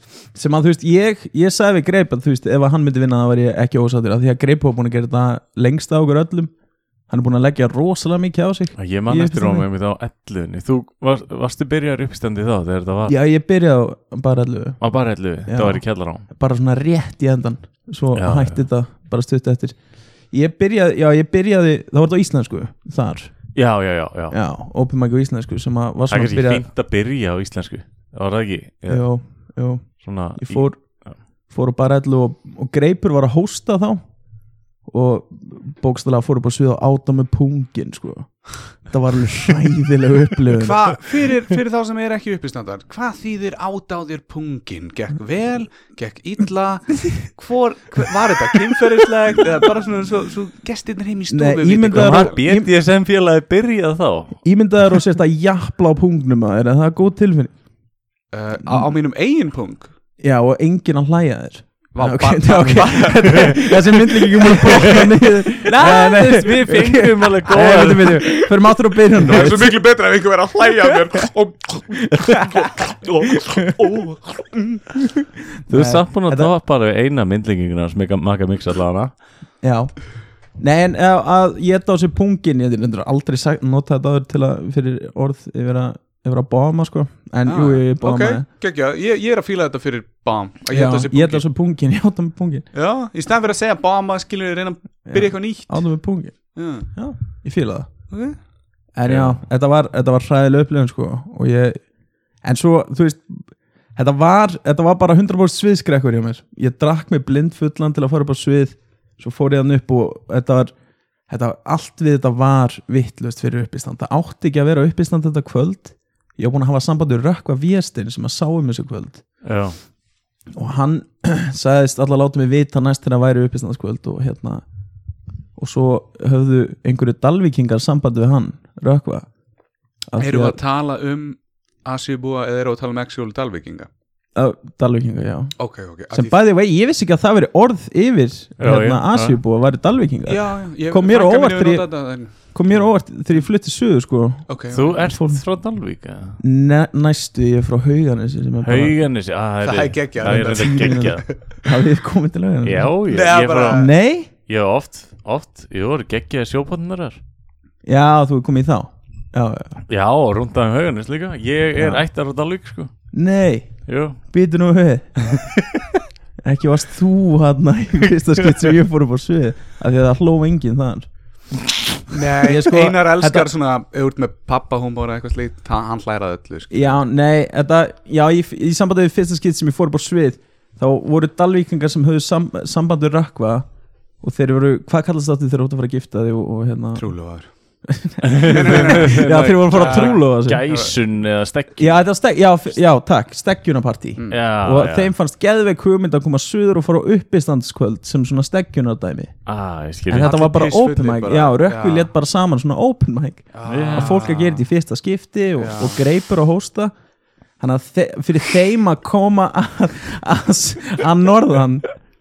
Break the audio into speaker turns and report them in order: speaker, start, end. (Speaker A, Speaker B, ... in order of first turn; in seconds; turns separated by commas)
Speaker A: 0.3-6.5, Speaker A: 7.1-9.7, Speaker B: 8.8-13.2, Speaker A: 13.1-14.8, Speaker B: 14.8-16.3, Speaker A: 15.4-19.8, Speaker B: 18.1-18.6, Speaker A: 20.3-23.4, Speaker B: 23.5-24.4, Speaker A: 24.3-26.6, Speaker B: 26.1-29.1, Speaker A: 28.9-30.8, Speaker B: 30.0-31.1, Speaker A: 31.5-34.0, Speaker A: 34.9-40.9, Speaker C: 40.5-52.4, Speaker A: 51.3-52.7, Speaker B: 51.9-54.4, Speaker A: 54.4-57.5, Speaker C: 58.3-59.9, Speaker A: 60.2-69.8, Speaker C: 61.9-65.1, Speaker B: 65.6-68.3, Speaker C: 68.2-68.5, Speaker C: 69.2-74.8, Speaker A: 70.9-71.3, Speaker A: 72.1-73.8, Speaker A: 75.1-76.5, Speaker B: 75.7-79.1, Speaker A: 79.6-79.9, Speaker A: 80.6-88.4, Speaker C: 87.5-91.4, Speaker A: 90.7-92.6, Speaker C: 92.7-95.8, Speaker A: 95.1-97.9, Speaker C: 96.5-96.9, Speaker C: 98.1-98.4, Speaker A: 99.0-101.8, Speaker A: 102.4-110.7, Speaker A: 111.3-119.2, Speaker B: 119.4-119.8, Speaker A: 120.5-124.6, Speaker A: 125.6-129.3, Speaker A: 130.1-130.6, Speaker C: 130.2-133.9, Speaker A: 134.3-135.6, Speaker C: 135.6-136.4, Speaker A: 136.1-141.9, Speaker B: 138.6-139.4, Speaker C: 140.3-142.5, Speaker A: 142.4-145.4, Speaker C: 144.5-145.0, Speaker B: 144.7-146.4, Speaker A: 146.4-148.9, Speaker B: 148.6-151.2, Speaker C: 149.6-151.6, Speaker A: 150.2-152.9, Speaker B: 152.6-153.8, Speaker C: 153.1-153.9, Speaker A: 153.7-154.3, Speaker B: 154.4-157.2, Speaker A: 157.8-159.8, Speaker B: 159.9-162.9, Speaker A: 161.8-162.0, Speaker A: 163.1-163.7, Speaker B: 163.9-164.2, Speaker A: 164.3-165.4, Speaker A: 166.4-171.1, Speaker C: 172.1-177.0, Speaker A: 172.4-173.5, Speaker A: 176.7-183.7, Speaker A: 184.2-187.1, Speaker C: 186.9-187.5, Speaker A: 187.8-190.7, Speaker B: 188.2-192.0, Speaker C: 188.4-190.9, Speaker A: 191.8-199.3, Speaker B: 194.3-195.1, Speaker B: 199.4-200.3, Speaker A: 200.1-206.9, Speaker C: 200.2-202.1, Speaker C: 203.5-204.6, Speaker B: 203.7-204.2, Speaker C: 205.6-206.0, Speaker A: 207.6-211.9